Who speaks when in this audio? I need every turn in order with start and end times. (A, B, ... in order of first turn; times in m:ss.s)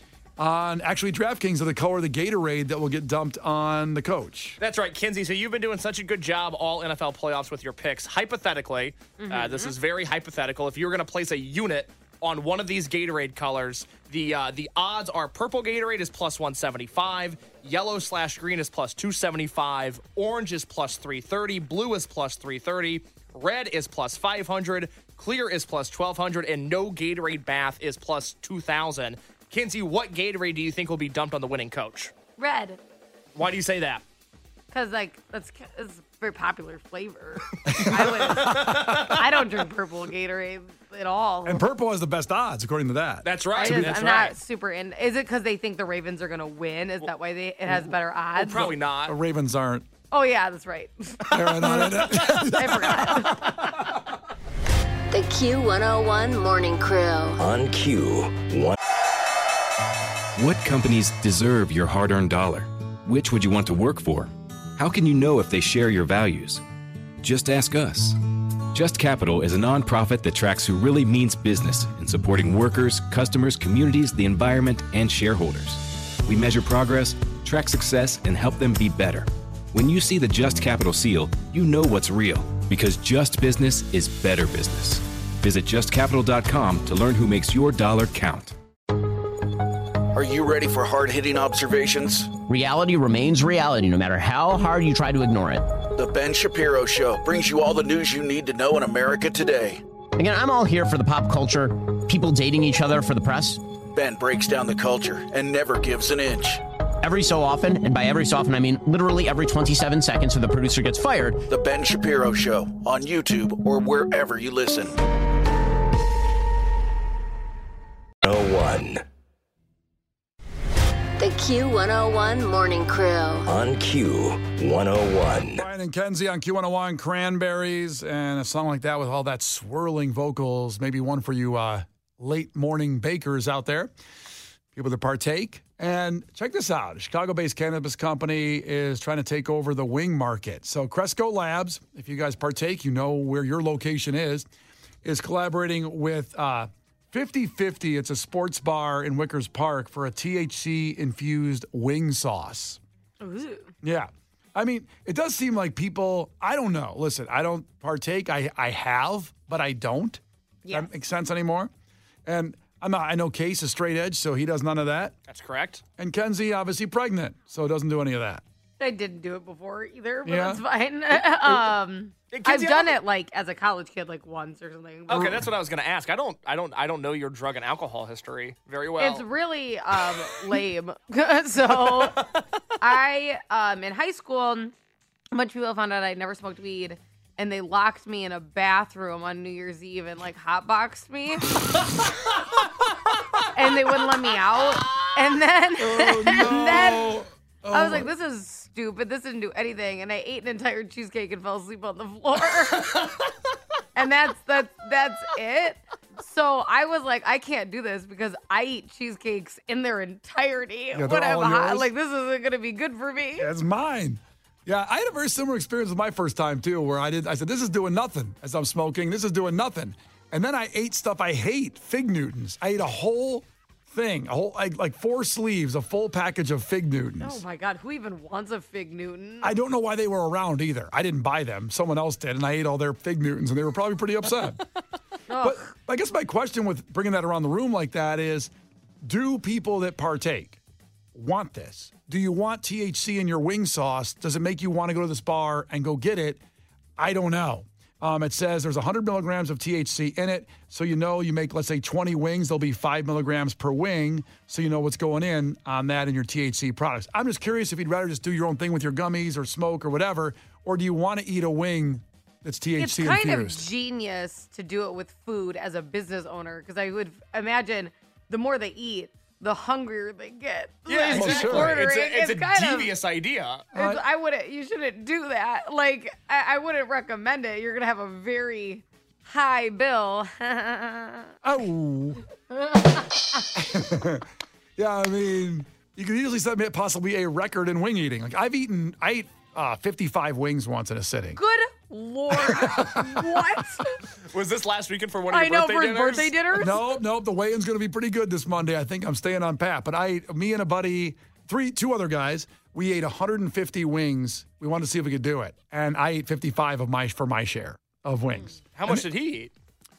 0:00.4-0:04.6 A
0:04.6-0:32.1 B
0:09.2-0:09.7 C
0:32.4-0:32.8 C
0:33.4-0:34.0 B
0:34.7-0:41.7 C
0:37.7-0:39.1 A
0:37.8-0:39.4 B
0:41.4-0:44.0 A
0:43.2-0:44.4 B
0:43.6-0:48.7 C
0:48.3-0:49.2 B
0:49.0-0:49.9 A
0:50.1-0:53.6 C
0:51.3-0:53.6 A
0:55.1-0:57.3 D
0:57.4-0:58.8 E
1:00.4-1:06.6 F
1:07.2-1:08.2 F
1:08.7-1:28.6 F
1:30.1-1:32.3 G
1:32.5-1:35.6 H
1:35.9-1:39.8 G
1:40.2-1:43.6 H
1:43.9-1:46.6 G
1:47.0-1:51.4 H
1:51.5-1:55.0 G
1:58.2-1:59.0 E
2:01.2-2:03.5 D
2:03.5-2:05.6 E
2:05.5-2:13.9 A
2:14.7-2:24.5 A
2:25.0-2:32.8 A
2:33.2-2:33.7 C
2:33.8-2:41.7 A
2:40.6-2:40.9 C
2:42.3-2:45.1 A
2:45.3-2:45.8 B
2:46.0-2:48.4 A
2:48.8-2:55.4 C
2:50.3-2:50.6 A
2:52.3-2:53.0 B
2:55.1-2:59.2 B
2:55.1-2:55.5 A
2:59.0-3:02.2 C
3:01.8-3:02.4 B
3:02.8-3:04.7 C
3:05.3-3:11.5 C
3:13.5-3:17.2 C
3:15.8-3:18.1 A
3:17.7-3:23.0 C
3:22.8-3:23.2 B
3:24.0-3:33.5 C
3:30.9-3:31.9 A
3:33.4-3:47.4 A
3:47.2-3:49.6 C
3:49.4-3:54.6 A
3:55.3-3:55.6 C
3:55.3-3:58.5 A
3:59.0-4:00.6 A
4:01.2-4:06.4 A
4:07.0-4:23.6 A
4:22.8-4:33.0 C
4:30.9-4:33.6 B
4:31.1-4:31.9 A
4:33.7-4:34.0 A
4:33.7-4:41.3 C
4:41.4-4:42.2 A
4:42.5-4:43.0 C
4:43.6-4:44.2 A
4:44.8-4:51.4 A
4:51.4-4:54.0 C
4:52.3-4:53.4 A
4:54.3-4:56.3 B
4:55.3-4:57.0 C
4:56.6-5:09.1 A
5:08.8-5:09.5 B